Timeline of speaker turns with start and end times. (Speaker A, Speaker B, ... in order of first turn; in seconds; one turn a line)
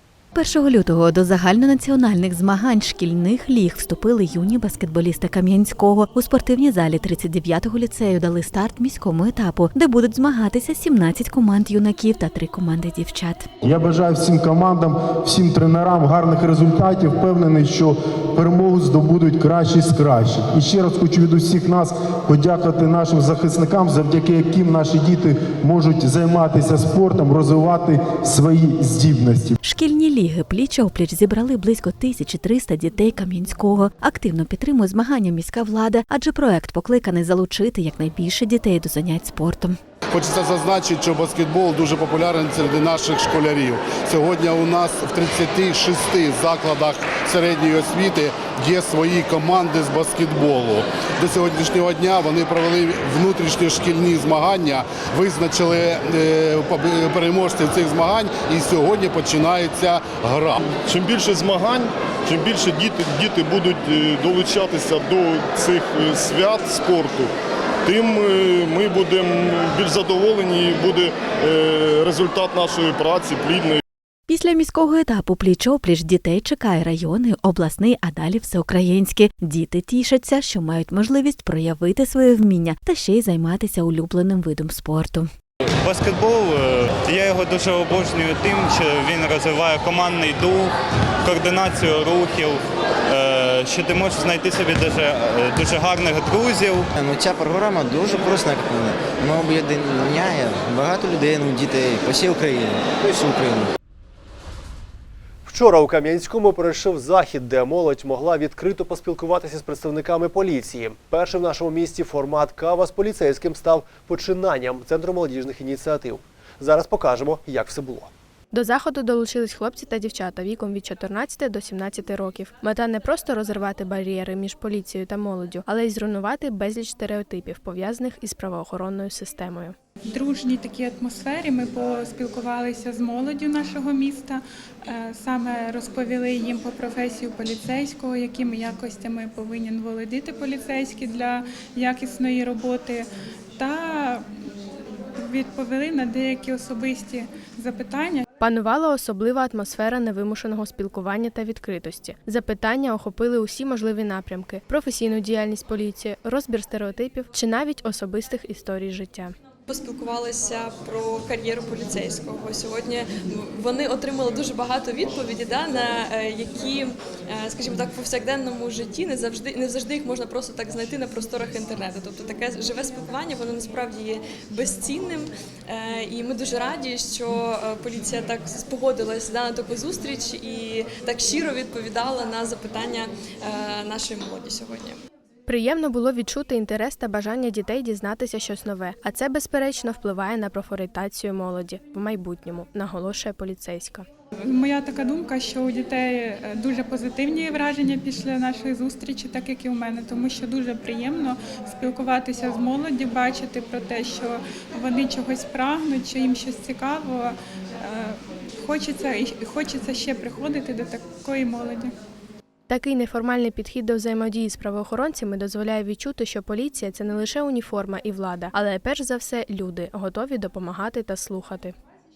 Speaker A: 0.3-13.5
Speaker B: 13.6-29.6
Speaker A: 29.6-39.8
Speaker C: 40.1-60.6
Speaker D: 60.7-67.3
Speaker D: 67.8-73.8
Speaker A: 74.3-85.3
Speaker E: 85.8-90.7
Speaker E: 91.2-96.9
Speaker F: 96.9-103.7
Speaker G: 105.5-118.1
Speaker H: 118.5-129.7
Speaker I: 130.1-144.2
Speaker I: 145.2-148.2
Speaker H: 148.4-159.3
Speaker J: 159.7-185.0
Speaker H: 185.5-194.1
Speaker I: 194.4-211.9
Speaker H: 212.7-221.7